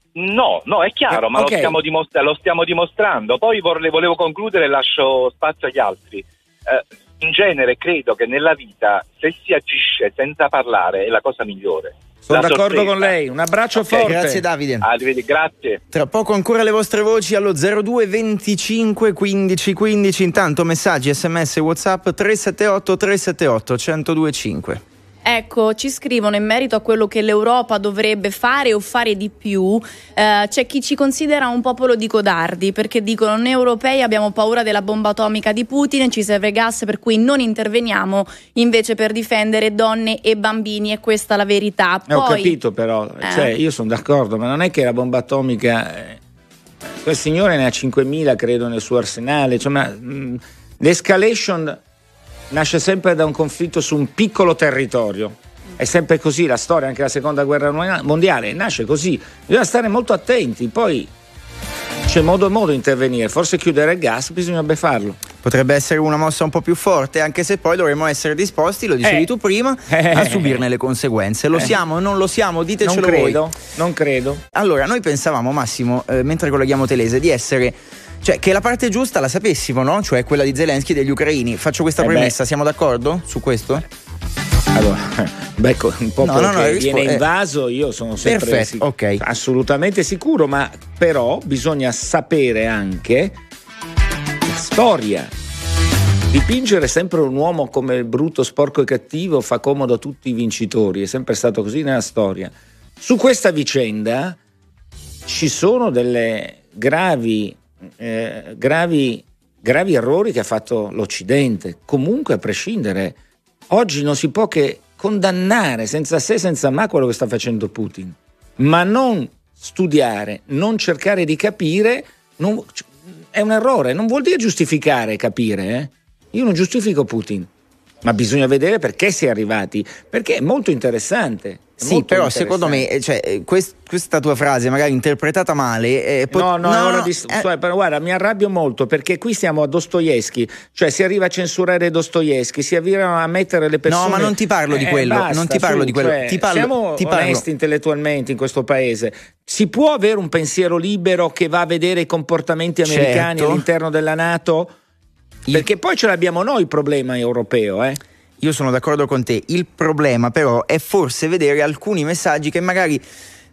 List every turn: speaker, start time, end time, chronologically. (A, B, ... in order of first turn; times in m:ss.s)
0:00.2-0:13.1 A
0:01.1-0:01.8 B
0:12.3-0:14.4 B
0:13.8-0:14.1 A
0:14.0-0:14.9 C
0:14.8-0:15.8 A
0:15.9-0:24.8 C
0:25.3-0:42.5 D
0:42.1-0:46.2 B
0:43.2-0:43.5 D
0:47.0-0:51.8 B
0:52.5-1:01.1 B
1:02.1-1:05.2 B
1:05.4-1:13.4 C
1:09.0-1:09.3 B
1:09.9-1:10.6 B
1:12.8-1:14.4 B
1:14.5-1:23.8 C
1:22.0-1:22.3 B
1:24.7-1:33.4 B
1:26.2-1:27.3 C
1:28.2-1:29.2 C
1:34.4-1:35.3 B
1:36.3-1:44.4 B
1:45.3-1:53.2 B
1:53.7-2:07.5 B
2:08.0-2:12.8 B
2:11.8-2:17.5 C
2:16.3-2:34.7 B
2:23.9-2:27.4 C
2:32.8-2:33.6 C
2:35.5-2:38.0 B
2:38.4-2:43.0 C